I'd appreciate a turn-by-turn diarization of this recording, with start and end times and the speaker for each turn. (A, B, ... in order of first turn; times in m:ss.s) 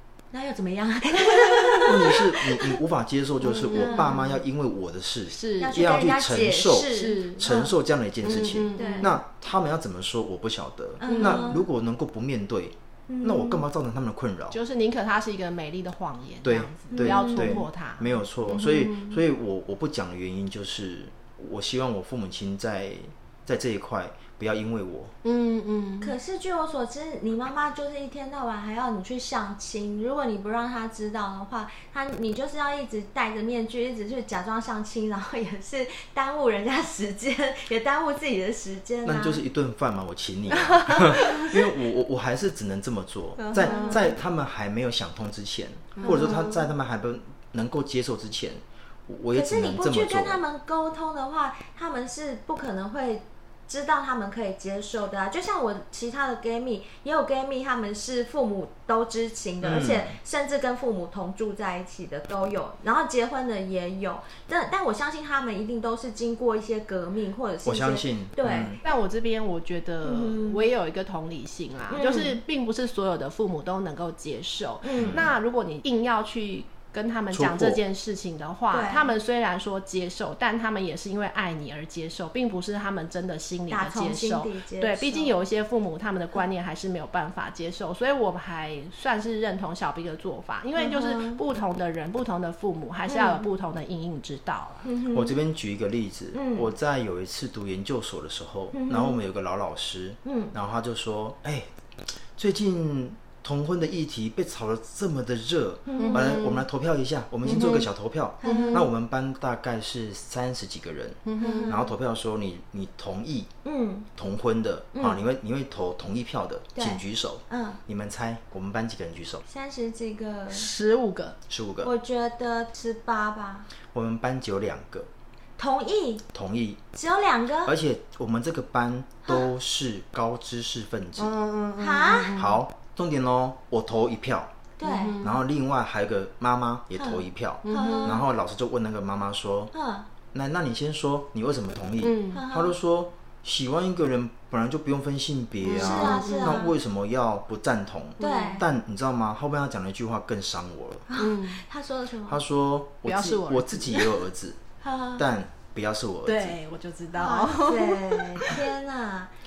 0:00.3-0:02.8 A
0:01.4-0:01.9 B
0:01.8-0:14.6 C
0:03.4-0:04.3 B
0:03.7-0:04.3 A
0:05.3-0:05.8 B
0:05.6-0:07.7 A
0:06.9-0:07.4 B
0:08.2-0:09.1 B
0:08.8-0:09.1 A
0:11.0-0:11.6 A
0:11.0-0:11.6 B
0:13.1-0:13.6 A
0:14.5-0:19.2 B
0:16.4-0:25.1 C
0:16.9-0:17.6 A
0:25.2-0:26.1 B
0:26.0-0:39.4 A
0:39.0-0:50.4 C
0:40.9-0:41.7 A
0:43.4-0:44.1 B
0:43.5-0:44.1 A
0:46.0-0:46.4 B
0:46.0-0:46.7 A
0:49.3-1:08.8 A
0:59.6-1:00.1 C
1:07.6-1:08.8 C
1:08.6-1:34.9 B
1:10.0-1:10.6 A
1:11.9-1:12.4 A
1:14.8-1:15.3 A
1:15.0-1:15.3 C
1:17.3-1:17.8 C
1:18.7-1:19.1 A
1:23.7-1:25.3 A
1:30.8-1:31.4 A
1:33.1-1:33.4 A
1:34.8-1:35.4 A
1:35.1-1:41.7 C
1:36.3-1:36.7 A
1:38.7-1:39.2 A
1:40.2-1:40.5 A
1:42.3-1:53.5 C
1:45.9-1:46.4 A
1:46.0-1:46.6 B
1:47.4-1:47.9 A
1:47.5-1:47.8 B
1:48.4-1:48.9 A
1:48.4-1:48.9 B
1:51.2-1:51.8 B
1:51.4-1:51.9 A
1:53.6-1:54.1 A
1:54.2-1:59.4 C
1:54.9-1:55.2 A
1:56.8-1:57.8 A
1:59.5-2:00.7 A
2:00.5-2:01.4 B
2:01.5-2:01.9 C
2:01.8-2:03.7 A
2:03.9-2:05.1 C
2:05.6-2:06.2 A
2:06.3-2:06.8 C
2:06.9-2:07.7 A
2:07.6-2:11.3 C
2:11.2-2:12.6 B
2:11.8-2:12.4 A
2:12.3-2:14.5 C
2:14.8-2:15.2 A
2:14.8-2:15.4 B
2:15.2-2:19.7 C
2:17.0-2:18.2 A
2:17.6-2:18.2 B
2:19.7-2:20.1 A
2:20.3-2:31.1 C
2:22.0-2:22.4 B
2:22.3-2:22.7 A
2:25.6-2:26.6 B
2:25.6-2:26.7 A
2:28.2-2:28.6 B
2:28.2-2:28.6 A
2:31.1-2:32.4 A
2:31.2-2:31.6 B
2:32.3-2:34.6 C
2:33.0-2:34.1 B
2:34.8-2:35.2 A
2:35.2-2:36.6 C
2:36.2-2:38.6 B
2:37.1-2:39.3 A